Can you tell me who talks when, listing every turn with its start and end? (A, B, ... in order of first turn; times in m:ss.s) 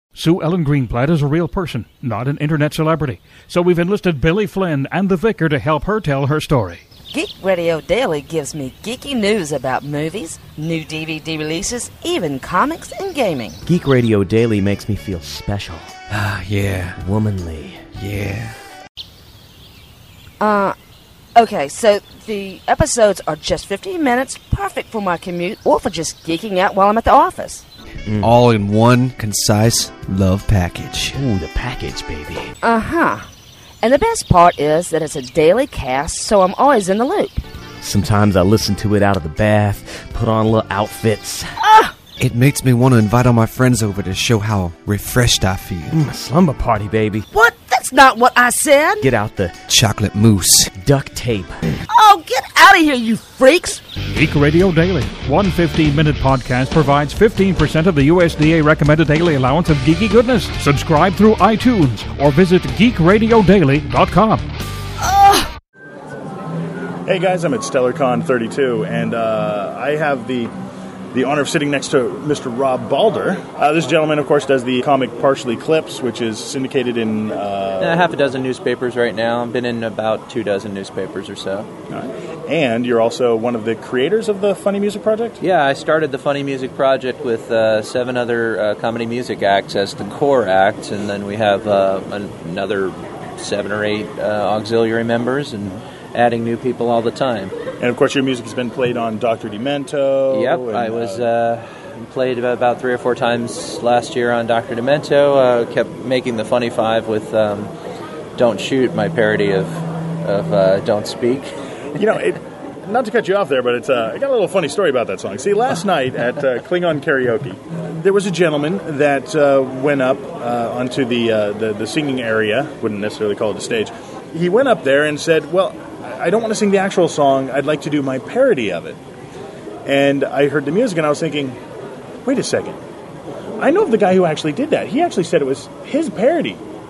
0:00.2-0:06.8 A
0:07.1-0:13.6 B
0:13.7-0:15.9 C
0:16.1-0:17.0 D
0:17.0-0:17.9 C
0:18.0-0:18.6 D
0:20.4-0:20.8 B
0:21.4-0:27.6 B
0:28.1-0:28.4 C
0:28.2-0:31.2 D
0:31.2-0:32.5 C
0:32.6-0:33.3 B
0:33.8-0:37.4 B
0:37.8-0:41.6 C
0:41.6-0:41.9 B
0:42.2-0:45.9 D
0:45.9-0:47.3 C
0:47.3-0:49.1 B
0:49.0-0:49.6 C
0:49.7-0:50.7 D
0:50.8-0:51.6 C
0:51.9-0:53.8 B
0:54.1-1:04.4 A
1:05.0-1:05.5 B
1:07.1-1:10.5 E
1:11.1-1:18.1 E
1:17.8-1:21.7 F
1:21.9-1:25.4 E
1:25.4-1:37.6 F
1:37.8-1:41.3 E
1:40.3-1:47.7 F
1:48.4-1:51.5 F
1:52.0-2:09.0 E
2:09.8-2:11.6 E
2:12.2-2:12.8 E
2:13.6-2:16.6 E